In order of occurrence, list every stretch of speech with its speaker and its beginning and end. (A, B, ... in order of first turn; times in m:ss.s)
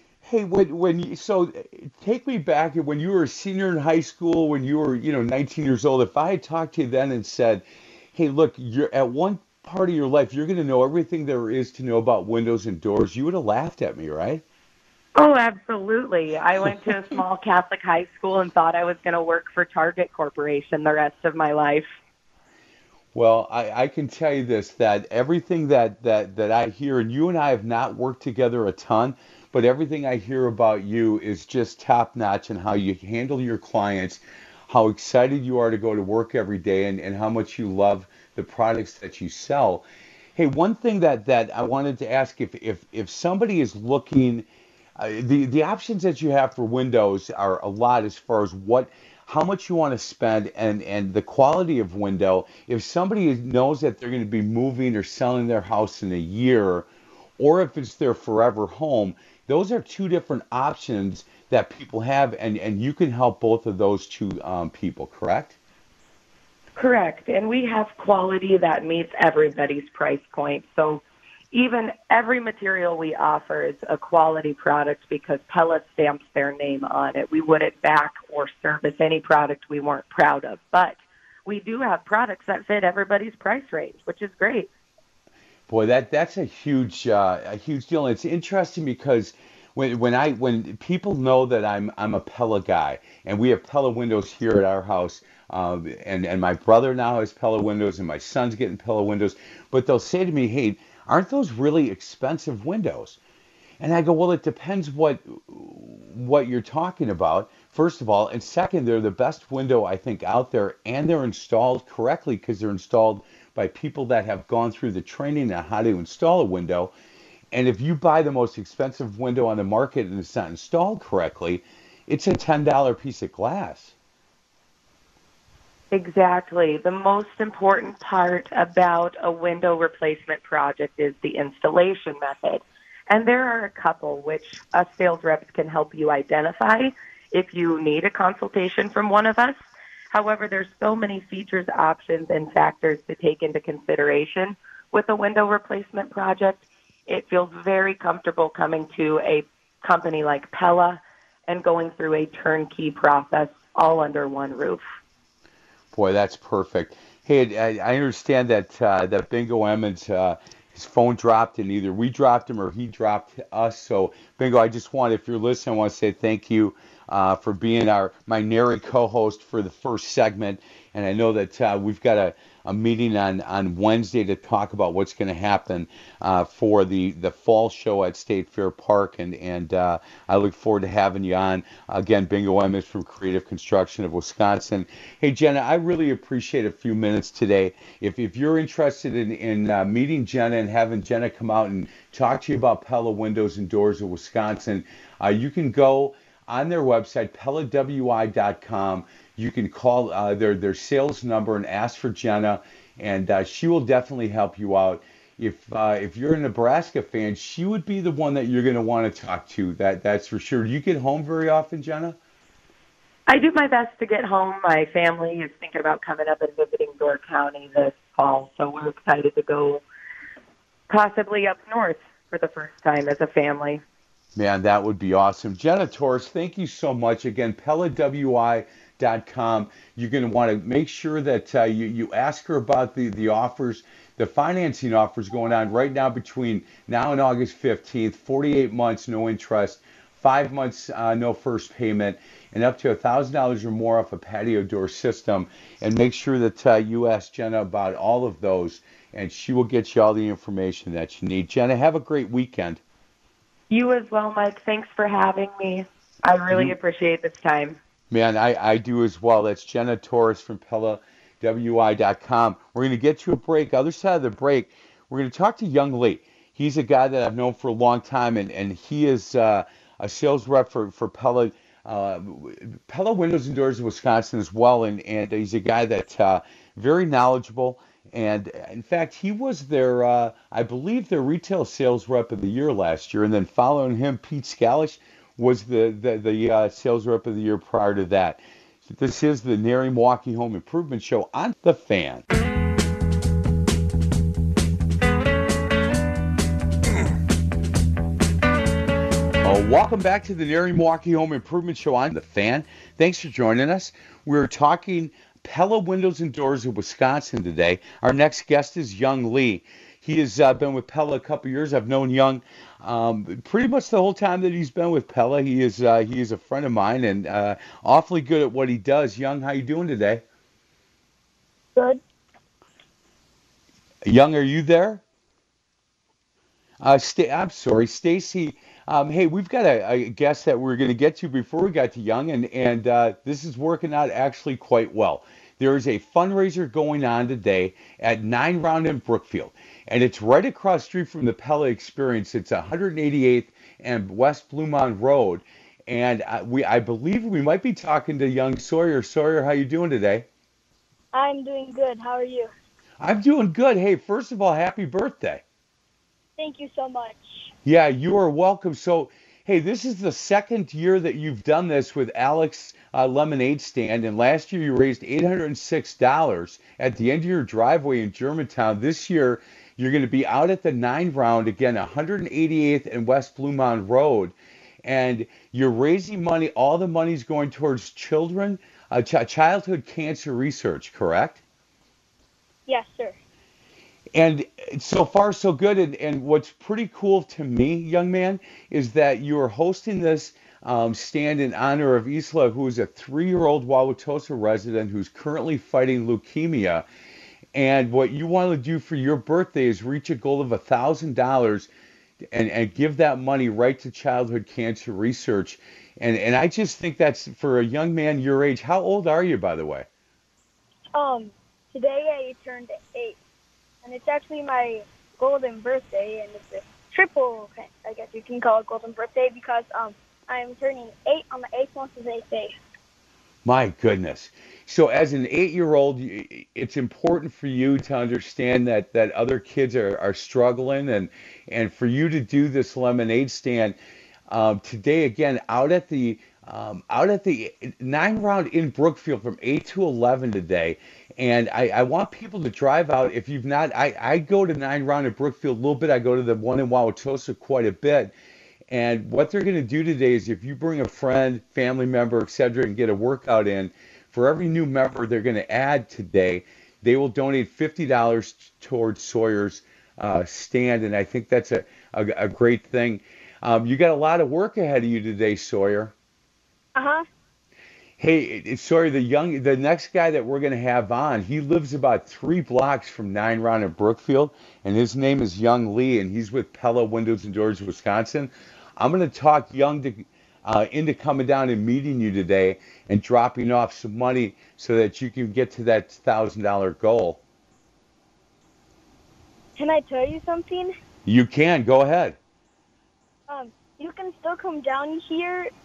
0:00.2-0:14.4 A
0:15.2-0:22.0 B
0:23.1-0:44.5 A
0:45.0-0:56.9 A
0:57.4-1:05.6 A
1:06.8-1:24.7 B
1:25.7-1:43.2 A
1:43.8-1:56.9 A
1:57.5-2:03.9 A
2:05.9-2:34.8 B
2:35.9-3:32.2 A
3:33.3-3:39.8 B
3:40.9-3:43.8 B
3:44.4-4:12.8 A
4:13.7-4:17.8 B
4:16.5-4:16.8 A
4:18.1-4:52.3 A
4:59.4-5:20.2 A
5:21.8-5:22.0 C
5:24.0-5:25.0 A
5:26.8-5:50.3 A
5:51.1-5:52.5 C
5:53.0-5:55.4 A
5:56.4-5:57.5 C
5:57.6-6:21.4 A
6:22.7-6:23.2 C
6:24.1-6:36.8 A
6:37.5-6:41.7 A
6:42.3-6:49.9 A
6:50.9-6:53.2 C
6:53.8-7:02.6 C
7:03.4-7:13.8 A
7:14.3-7:28.1 A
7:28.7-7:45.9 A
7:46.8-7:47.1 C
7:48.0-8:07.2 A
8:09.6-8:10.7 C
8:11.1-8:12.2 A
8:13.3-8:15.5 C